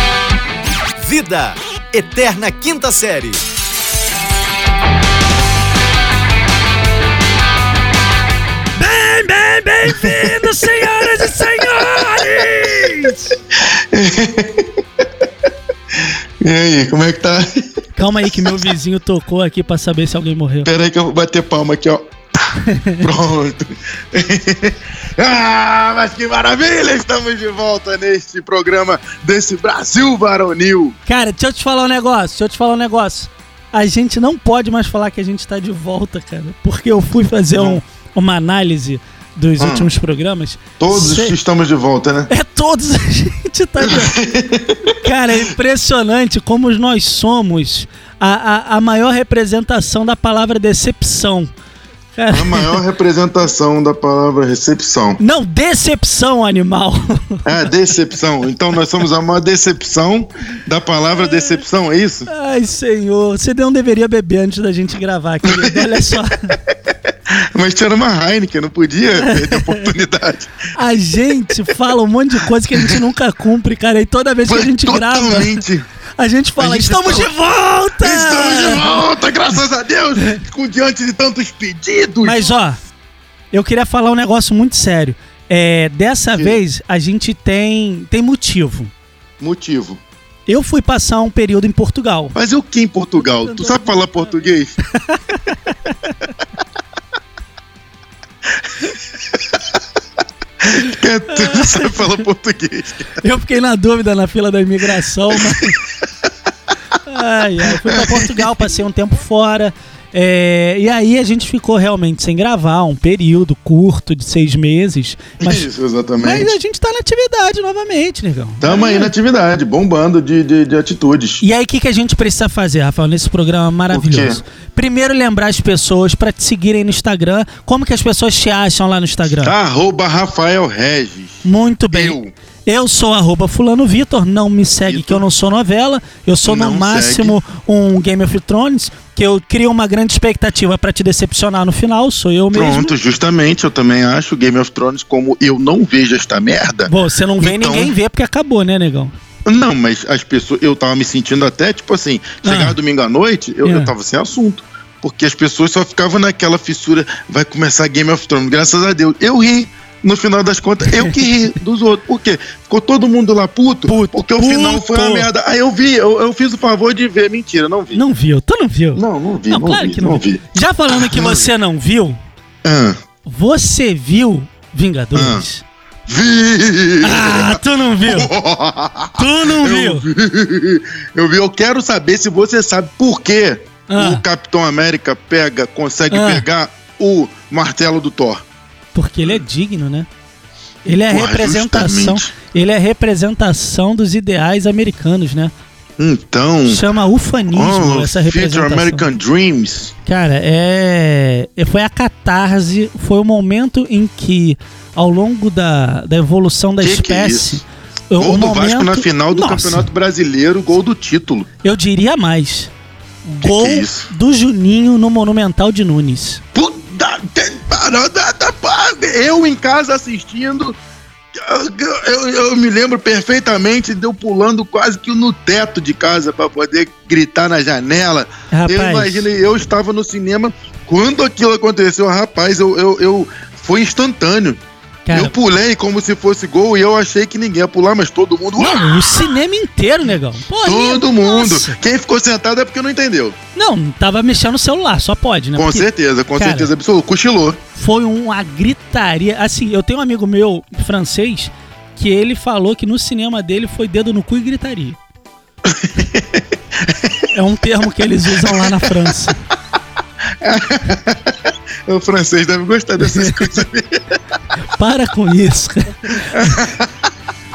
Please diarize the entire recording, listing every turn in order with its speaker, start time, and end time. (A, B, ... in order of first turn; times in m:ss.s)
0:01.0-0:03.4 A
0:08.8-0:13.4 B
0:13.5-0:14.7 C
0:16.4-0:17.5 C
0:18.0-0:20.7 B
0:20.6-0:22.1 C
0:22.6-0:23.1 B
0:23.0-0:31.0 C
0:31.1-0:41.4 B
0:37.5-0:37.8 C
0:39.6-0:39.9 C
0:40.8-0:42.3 C
0:42.3-0:44.2 B
0:43.8-0:44.9 C
0:45.0-0:51.5 B
0:52.2-0:52.8 B
0:52.3-0:55.2 C
0:55.2-0:57.7 B
0:57.4-1:02.3 C
1:01.2-1:01.6 B
1:02.3-1:06.6 B
1:05.4-1:06.2 C
1:07.5-1:10.7 C
1:09.2-1:09.9 B
1:10.7-1:15.6 B
1:14.5-1:15.8 C
1:16.2-1:19.0 B
1:16.6-1:17.3 C
1:18.0-1:22.5 C
1:22.2-1:22.8 B
1:23.5-1:28.9 B
1:29.4-1:30.0 C
1:30.5-1:32.4 B
1:32.3-1:34.8 C
1:33.2-1:36.3 B
1:40.6-1:43.2 C
1:41.3-1:42.3 B
1:43.2-1:45.8 B
1:47.0-1:59.1 B
1:47.7-1:48.5 C
1:55.4-1:56.5 C
1:58.6-2:01.4 C
2:01.4-2:09.5 B
2:03.9-2:04.4 C
2:09.3-2:12.3 C
2:11.4-2:23.0 B
2:14.8-2:15.2 C
2:16.4-2:17.4 C
2:22.5-2:27.9 C
2:26.8-2:29.1 B
2:29.4-2:48.0 C
2:32.4-2:32.8 B
2:33.6-2:33.9 B
2:40.9-2:41.3 B
2:43.8-2:45.3 B
2:47.9-2:52.2 B
2:48.9-2:51.5 C
2:52.6-2:53.0 C
2:53.2-2:55.6 B
2:55.1-2:55.4 C
2:56.1-3:08.4 C
2:57.0-2:58.3 B
2:59.2-3:00.0 B
3:03.9-3:04.2 B
3:06.1-3:06.4 B
3:08.9-3:10.1 B
3:10.8-3:15.5 B
3:10.9-3:12.3 C
3:16.0-3:16.8 C
3:16.6-3:19.0 B
3:17.5-3:19.9 C
3:20.0-3:29.9 B
3:26.8-3:27.6 C
3:28.2-3:31.5 C
3:31.6-3:32.7 B
3:33.2-3:36.4 B
3:33.4-3:34.1 C
3:36.5-3:40.8 C
3:41.4-3:59.2 C
3:48.5-3:49.3 B
3:55.0-3:55.3 B
3:58.6-4:01.8 B
4:00.6-4:03.4 C
4:03.5-4:06.7 B
4:05.6-4:07.6 C
4:07.8-4:15.0 B
4:15.7-4:17.3 C
4:17.3-4:19.4 B
4:18.4-4:18.9 C
4:20.4-4:24.0 C
4:23.0-4:23.6 B
4:24.8-4:26.6 B
4:26.3-4:26.9 C